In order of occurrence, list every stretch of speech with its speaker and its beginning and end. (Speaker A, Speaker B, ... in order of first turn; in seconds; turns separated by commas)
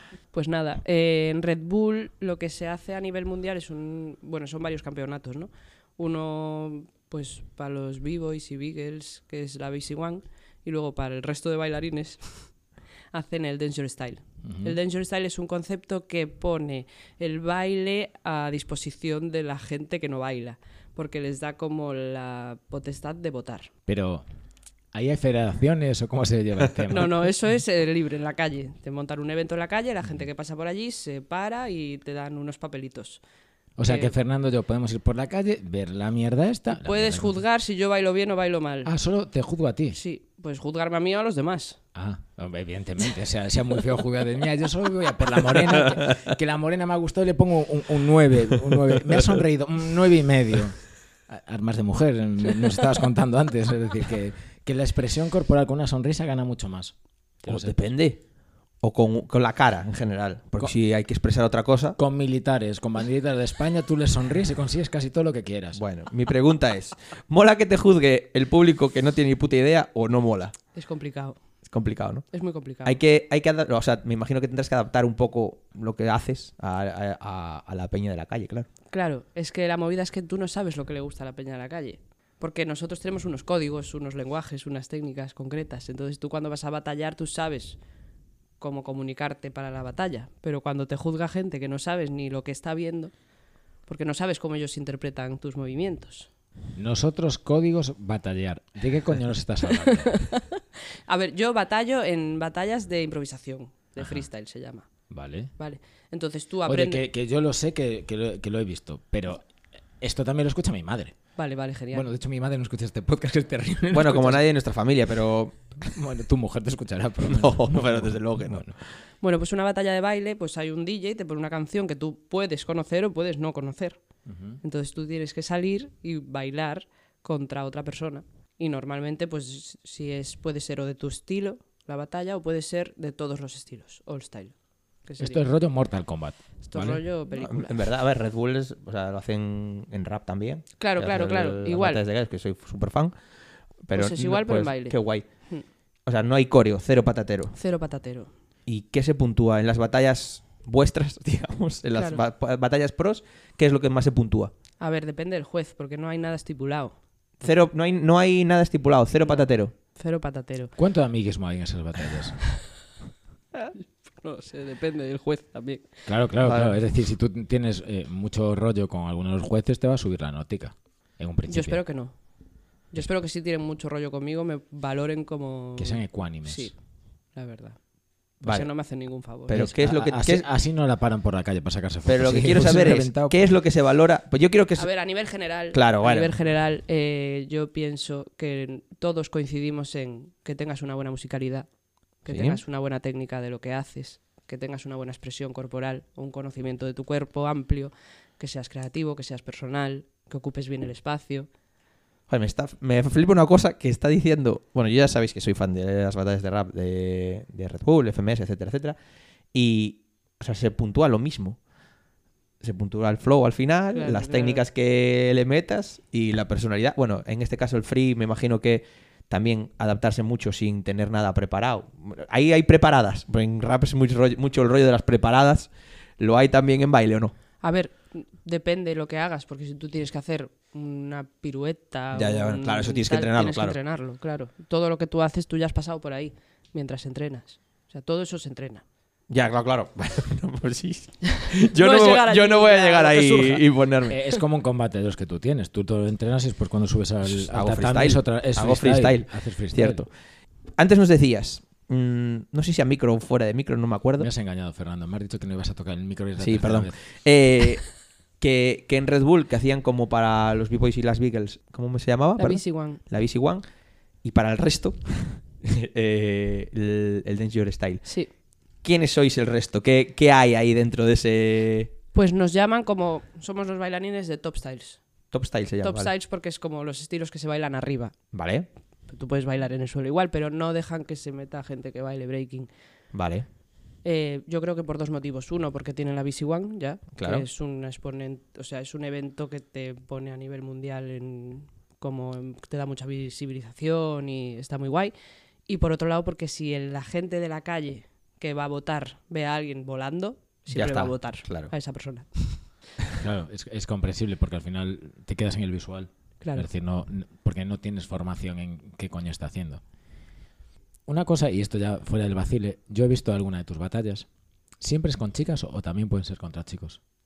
Speaker A: 0.3-12.5, Speaker A: 13.1-23.7, Speaker B: 14.4-14.8, Speaker B: 23.9-24.2, Speaker B: 24.9-27.3, Speaker A: 26.9-33.2, Speaker B: 33.8-37.4, Speaker A: 33.8-34.1, Speaker A: 36.7-38.9, Speaker B: 38.8-40.0, Speaker A: 39.9-41.8, Speaker B: 41.9-57.8, Speaker C: 57.5-58.2, Speaker C: 58.8-62.0, Speaker B: 62.0-65.8, Speaker C: 65.7-70.5, Speaker A: 70.7-71.4, Speaker C: 71.7-72.3, Speaker A: 72.3-73.0, Speaker C: 72.8-78.7, Speaker A: 78.9-87.8, Speaker A: 88.6-93.1, Speaker A: 93.9-96.3, Speaker B: 96.8-100.1, Speaker A: 99.8-104.9, Speaker B: 104.0-104.2, Speaker B: 105.1-105.5, Speaker A: 105.6-107.0, Speaker B: 106.7-109.5, Speaker B: 110.0-111.2, Speaker A: 111.3-112.0, Speaker B: 111.9-114.4, Speaker C: 113.9-115.9, Speaker B: 115.8-118.8, Speaker C: 117.2-118.8, Speaker A: 119.2-124.0, Speaker B: 124.2-124.6, Speaker A: 124.6-135.4, Speaker B: 135.2-137.0, Speaker A: 136.6-137.8, Speaker C: 137.3-143.2, Speaker A: 140.8-142.0, Speaker C: 143.8-145.5, Speaker A: 143.9-145.6, Speaker C: 146.0-147.6, Speaker A: 147.6-148.3, Speaker C: 148.7-154.5, Speaker A: 154.8-156.9, Speaker C: 157.4-159.7, Speaker A: 159.2-160.7, Speaker B: 160.8-162.6, Speaker A: 164.2-166.0, Speaker B: 166.1-171.8, Speaker C: 166.4-166.7, Speaker A: 171.5-176.8, Speaker B: 175.8-176.7, Speaker A: 177.3-177.8, Speaker A: 178.3-179.5, Speaker C: 178.4-180.5, Speaker B: 179.5-183.5, Speaker C: 182.1-184.9, Speaker A: 184.8-201.5, Speaker C: 185.7-186.3, Speaker C: 192.3-192.6, Speaker C: 202.3-209.0, Speaker C: 209.5-211.6, Speaker C: 212.6-227.3, Speaker A: 213.9-214.6, Speaker A: 227.6-238.8, Speaker C: 232.1-233.8, Speaker C: 239.3-244.2, Speaker A: 241.8-243.7, Speaker B: 244.1-250.0, Speaker C: 247.2-250.1, Speaker C: 250.7-254.3, Speaker B: 254.2-257.0, Speaker C: 256.4-263.6, Speaker A: 262.4-263.0, Speaker C: 264.2-268.1, Speaker C: 268.8-271.9, Speaker A: 272.1-275.0, Speaker C: 275.3-276.1, Speaker A: 275.8-278.1, Speaker C: 278.3-278.7, Speaker A: 279.1-282.7, Speaker C: 283.1-283.4, Speaker A: 284.0-295.1, Speaker C: 287.1-287.4, Speaker A: 295.7-302.9, Speaker C: 300.7-301.7, Speaker B: 303.2-309.8, Speaker A: 306.4-306.7, Speaker B: 311.1-314.3, Speaker B: 314.8-317.0